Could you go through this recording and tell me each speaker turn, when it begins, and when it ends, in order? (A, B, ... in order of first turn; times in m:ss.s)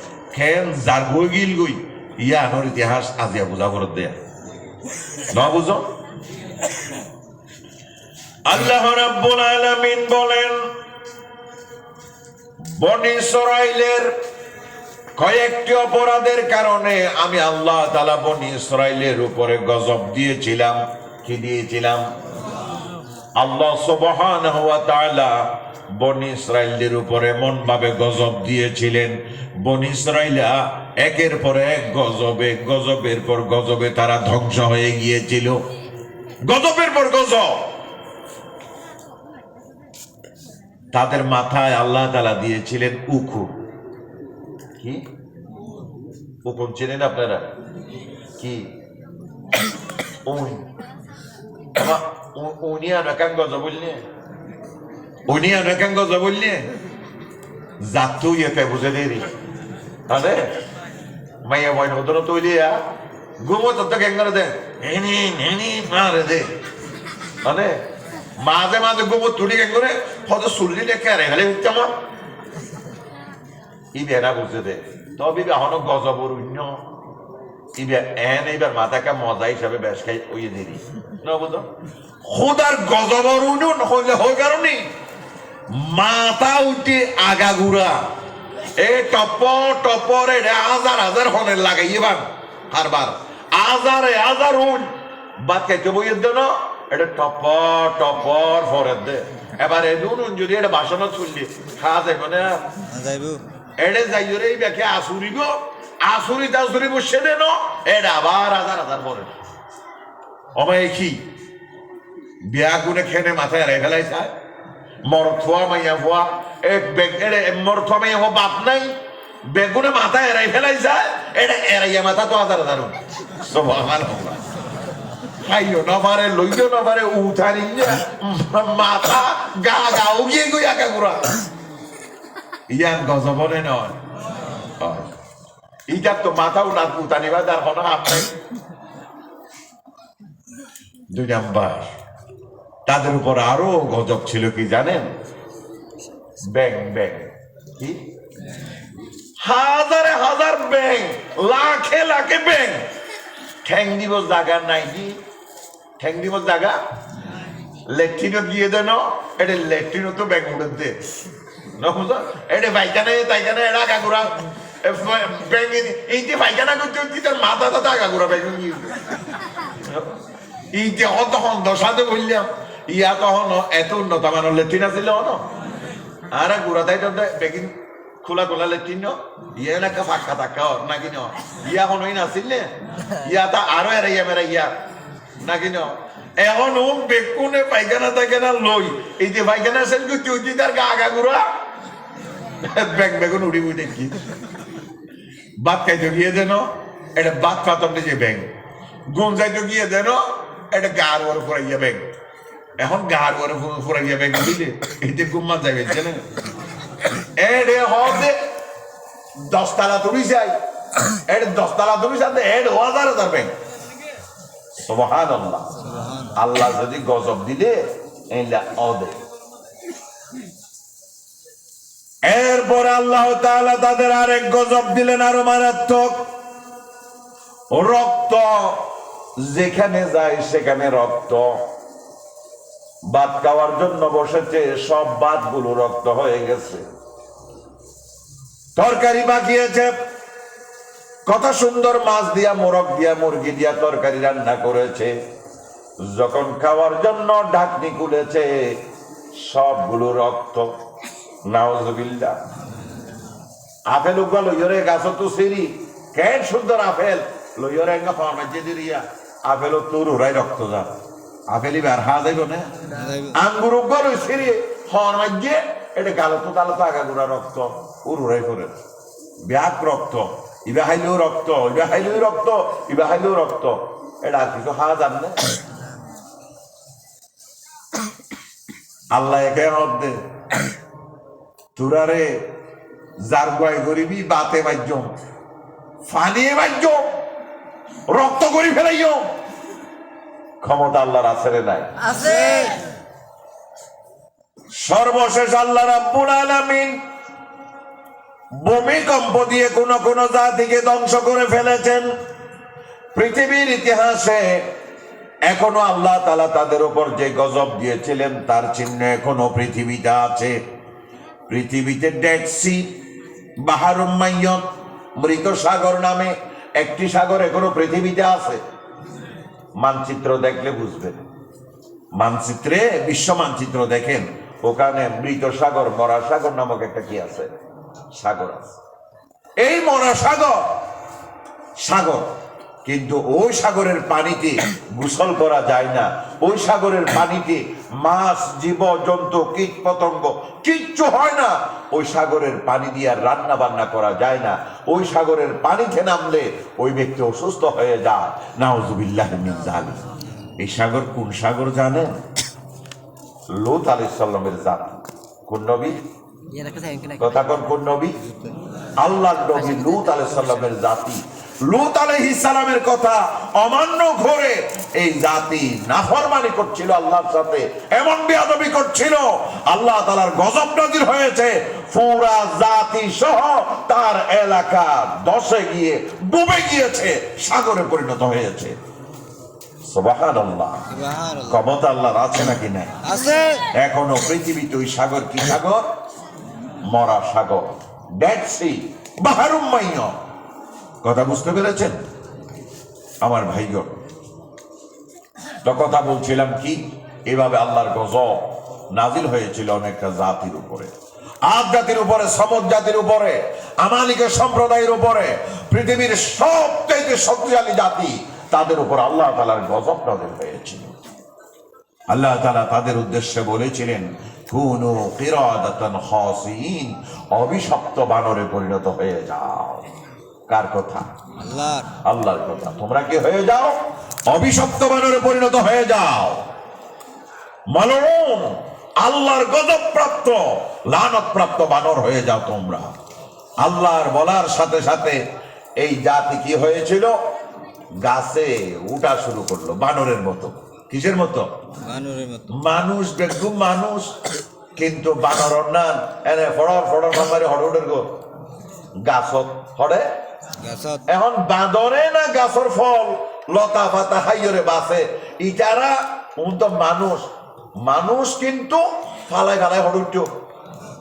0:00.3-0:04.2 A
0:05.3-0:05.9 A
0:08.5-0:10.7 A
0:12.6-0:14.1 A
0:15.2-0:22.1 A
0:23.4-0:35.7 A
0:36.4-0:37.7 A
0:40.9-0:43.5 A
0:44.8-0:45.1 A
0:46.4-0:47.5 A
0:48.4-0:48.7 A
0:50.3-0:50.7 A
0:51.8-0:54.0 A
0:55.3-0:56.7 A
0:57.8-0:59.3 A
1:00.1-1:00.6 A
1:01.5-1:02.8 A
1:03.4-1:06.5 A
1:07.4-1:07.8 A
1:08.4-1:11.9 A
1:14.0-1:16.8 A
1:17.8-1:21.7 A
1:22.2-1:24.9 A
1:25.7-1:28.1 A
1:28.8-1:42.6 A
1:42.9-1:43.4 B
1:43.8-1:49.4 A
1:50.6-1:51.2 A
1:52.4-1:54.3 A
1:55.1-1:59.0 A
1:59.5-2:04.4 A
2:05.4-2:11.3 A
2:12.7-2:14.0 A
2:14.8-2:15.1 A
2:15.9-2:18.4 A
2:21.1-2:21.9 A
2:22.9-2:25.1 A
2:26.4-2:28.0 A
2:29.4-2:32.9 A
2:33.6-2:35.2 A
2:36.0-2:36.8 A
2:37.9-2:41.0 A
2:41.8-2:49.0 A
2:49.8-2:50.1 A
2:50.7-2:55.4 A
2:56.3-3:04.7 A
3:05.4-3:11.4 A
3:12.6-3:14.2 A
3:15.6-3:18.5 A
3:19.1-3:22.0 A
3:22.8-3:26.3 A
3:27.4-3:28.4 A
3:29.4-3:30.6 A
3:31.2-3:33.5 A
3:34.9-3:35.7 A
3:35.9-3:36.3 B
3:36.3-3:39.2 A
3:42.2-3:46.3 A
3:47.7-3:48.9 A
3:49.4-3:51.6 A
3:53.1-3:56.8 A
3:58.8-3:59.9 A
4:01.3-4:05.1 A
4:06.0-4:08.8 A
4:09.3-4:10.7 A
4:11.4-4:12.4 A
4:13.9-4:20.9 A
4:21.5-4:22.8 A
4:22.9-4:23.4 B
4:23.3-4:28.8 A
4:29.4-4:35.4 A
4:39.1-4:40.2 A
4:41.8-4:42.5 A
4:43.2-4:45.1 A
4:46.1-4:47.2 A
4:48.1-4:49.3 A
4:50.6-4:52.1 A
4:52.2-4:52.8 B
4:54.8-4:57.0 A
4:58.6-5:02.1 A
5:03.1-5:04.6 A
5:05.5-5:10.6 A
5:11.5-5:12.9 A
5:13.6-5:14.7 A
5:15.2-5:18.6 A
5:19.8-5:21.2 A
5:22.2-5:27.5 A
5:28.2-5:28.8 A
5:29.6-5:30.7 A
5:31.8-5:32.3 A
5:32.8-5:50.0 A
5:50.6-5:52.2 A
5:53.5-5:56.0 A
5:56.6-5:57.2 B
5:57.2-5:58.2 A
5:59.0-6:18.8 A
6:19.9-6:20.9 A
6:20.9-6:21.6 B
6:21.4-6:23.0 A
6:23.0-6:23.7 B
6:23.8-6:25.8 A
6:26.9-6:30.2 A
6:31.0-6:32.0 A
6:33.2-6:34.0 A
6:35.6-6:40.9 A
6:41.4-6:50.9 A
6:52.1-6:59.9 A
7:00.5-7:01.1 A
7:01.4-7:01.9 B
7:02.0-7:06.4 A
7:07.7-7:12.9 A
7:13.6-7:15.2 A
7:15.8-7:17.1 A
7:18.0-7:21.5 A
7:21.8-7:22.5 B
7:22.5-7:24.2 A
7:24.8-7:28.1 A
7:29.0-7:30.1 A
7:30.6-7:31.0 B
7:31.1-7:37.3 A
7:37.8-7:40.3 A